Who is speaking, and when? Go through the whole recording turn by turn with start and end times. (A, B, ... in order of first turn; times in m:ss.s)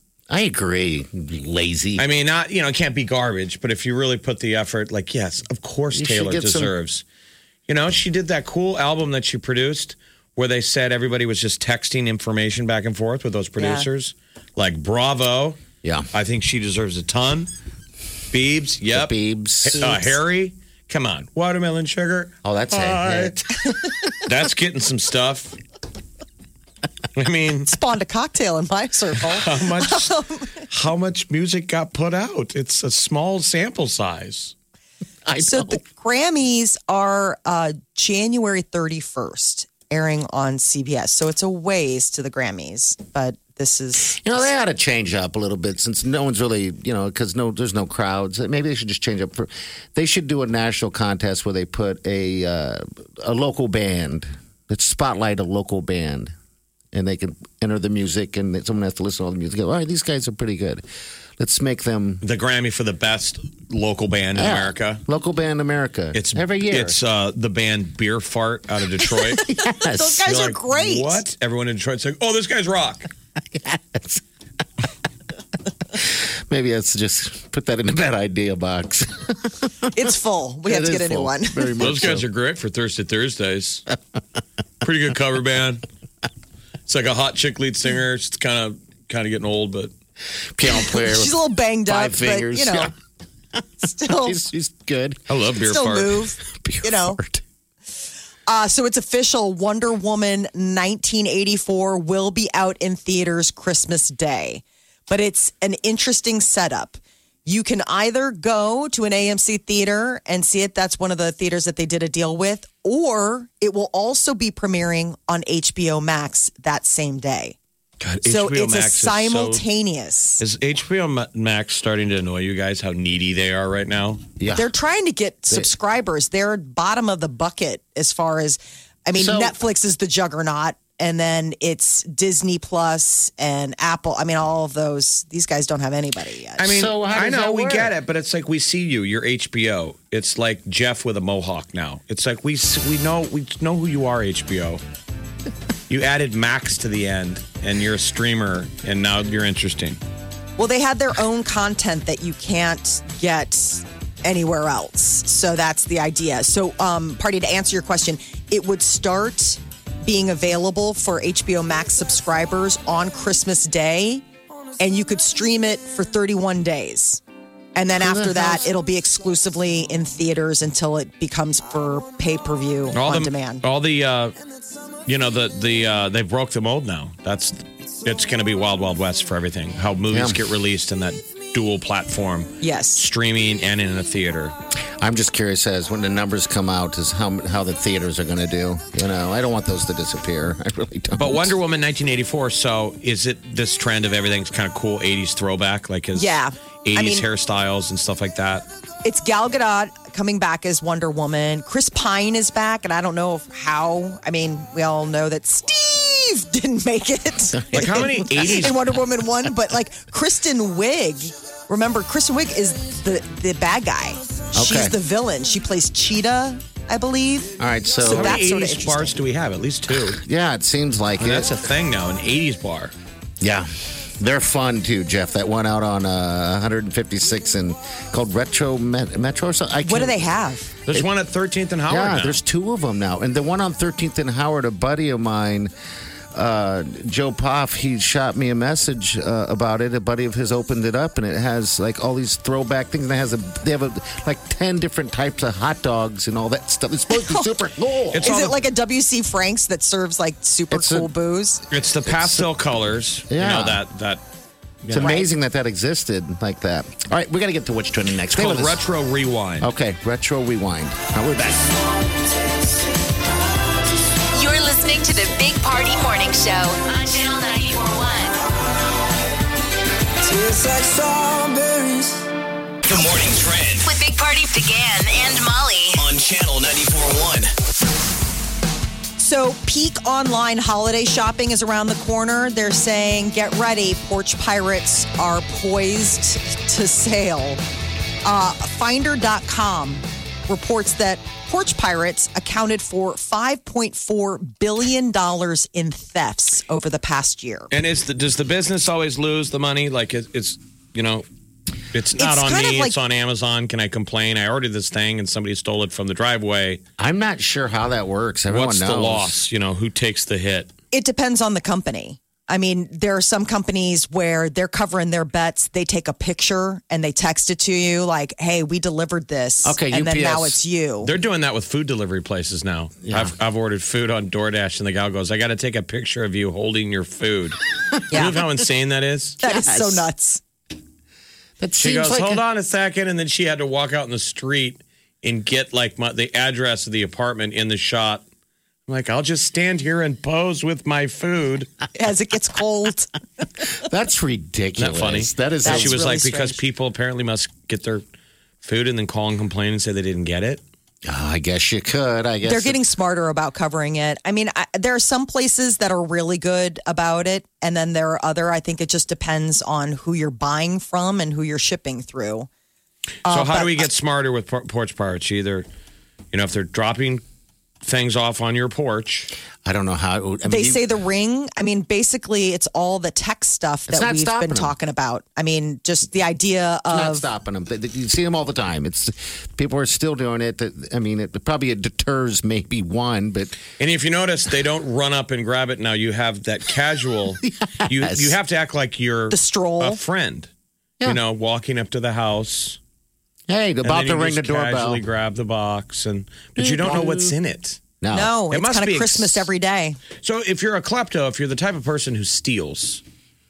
0:00.3-0:02.0 A
0:02.0-0:07.0 B
0:05.9-0:06.7 A
0:07.7-0:15.6 B
0:13.6-0:13.8 C
0:15.8-0:16.1 A
0:16.1-0:17.5 B
0:18.3-0:23.4 B
0:18.9-0:20.1 A
0:22.4-0:23.4 A
0:24.2-0:25.6 B
0:27.2-0:27.7 B
0:27.7-0:30.5 C
0:29.3-0:30.1 B
0:30.7-0:34.5 B
0:35.2-0:35.8 A
0:35.4-0:44.4 C
0:44.1-0:56.3 A
0:56.9-1:00.8 A
1:01.4-1:02.2 A
1:02.2-1:05.0 B
1:04.3-1:07.0 A
1:06.1-1:09.4 B
1:09.4-1:11.2 C
1:09.4-1:10.3 A
1:10.2-1:13.1 B
1:13.5-1:14.2 A
1:15.9-1:19.9 A
1:19.9-1:21.7 C
1:20.6-1:22.2 A
1:21.8-1:23.8 B
1:24.8-1:25.8 B
1:26.9-1:29.9 B
1:30.6-1:32.9 A
1:30.9-1:32.9 C
1:33.8-1:34.4 C
1:33.8-1:35.3 A
1:35.3-1:36.2 B
1:35.7-1:37.2 C
1:36.5-1:37.4 A
1:38.5-1:57.6 C
1:58.0-1:59.6 B
1:58.2-2:00.4 C
2:00.4-2:04.2 B
2:04.4-2:04.7 A
2:04.5-2:16.7 C
2:09.1-2:09.6 A
2:16.6-2:24.8 B
2:16.6-2:17.9 A
2:25.9-2:30.0 B
2:30.6-2:44.2 C
2:44.8-2:47.2 C
2:47.7-2:53.6 C
2:48.0-2:48.7 A
2:52.9-2:54.3 B
2:55.0-3:04.5 B
3:00.1-3:00.4 A
3:02.6-3:03.0 C
3:05.0-3:11.5 A
3:11.2-3:18.6 B
3:16.1-3:17.2 C
3:19.0-3:39.2 C
3:27.5-3:28.7 A
3:27.7-3:28.8 B
3:34.5-3:34.9 A
3:37.6-3:38.4 A
3:38.0-3:40.2 B
3:39.9-3:41.5 A
3:41.2-3:42.9 B
3:43.4-3:50.3 A
3:49.8-3:50.7 C
3:50.9-3:52.4 B
3:51.9-3:55.7 A
3:56.3-4:08.3 A
4:07.1-4:07.5 C
4:08.1-4:08.6 B
4:08.2-4:11.6 C
4:10.7-4:11.1 A
4:11.7-4:14.2 B
4:12.0-4:12.5 A
4:13.3-4:13.8 A
4:14.8-4:15.1 B
4:14.9-4:18.8 A
4:15.0-4:15.3 C
4:18.3-4:19.7 B
4:19.6-4:21.7 A
4:24.3-4:28.4 D
4:30.2-4:32.3 E
4:32.8-4:33.9 F
4:33.8-4:36.0 D
4:35.9-4:37.5 F
4:39.2-4:47.6 C
4:48.2-4:57.7 C
4:57.7-5:01.2 B
5:01.9-5:06.8 B
5:02.2-5:03.0 C
5:07.0-5:09.4 A
5:08.5-5:10.7 B
5:10.9-5:21.1 C
5:19.6-5:20.6 A
5:21.0-5:27.6 B
5:23.0-5:23.3 A
5:28.1-5:28.4 C
5:28.1-5:29.4 B
5:29.4-5:30.0 A
5:29.4-5:30.4 C
5:31.6-5:32.4 A
5:31.8-5:38.2 B
5:38.9-5:41.7 B
5:42.0-5:43.1 C
5:43.8-5:46.1 A
5:44.8-5:48.0 B
5:45.6-5:46.6 C
5:48.6-5:50.6 B
5:51.0-5:52.8 A
5:52.4-6:02.5 C
6:03.2-6:03.9 C
6:03.2-6:05.6 B
6:06.3-6:07.2 B
6:07.8-6:09.3 B
6:09.6-6:10.8 A
6:10.5-6:17.3 C
6:13.9-6:14.7 A
6:16.9-6:23.6 A
6:23.8-6:30.5 B
6:27.4-6:28.3 A
6:29.3-6:30.0 C
6:31.0-6:32.8 B
6:33.5-6:35.0 A
6:33.8-6:37.8 B
6:36.6-6:37.3 A
6:38.0-6:38.3 A
6:38.1-6:40.0 C
6:38.5-6:39.5 B
6:40.2-6:43.0 B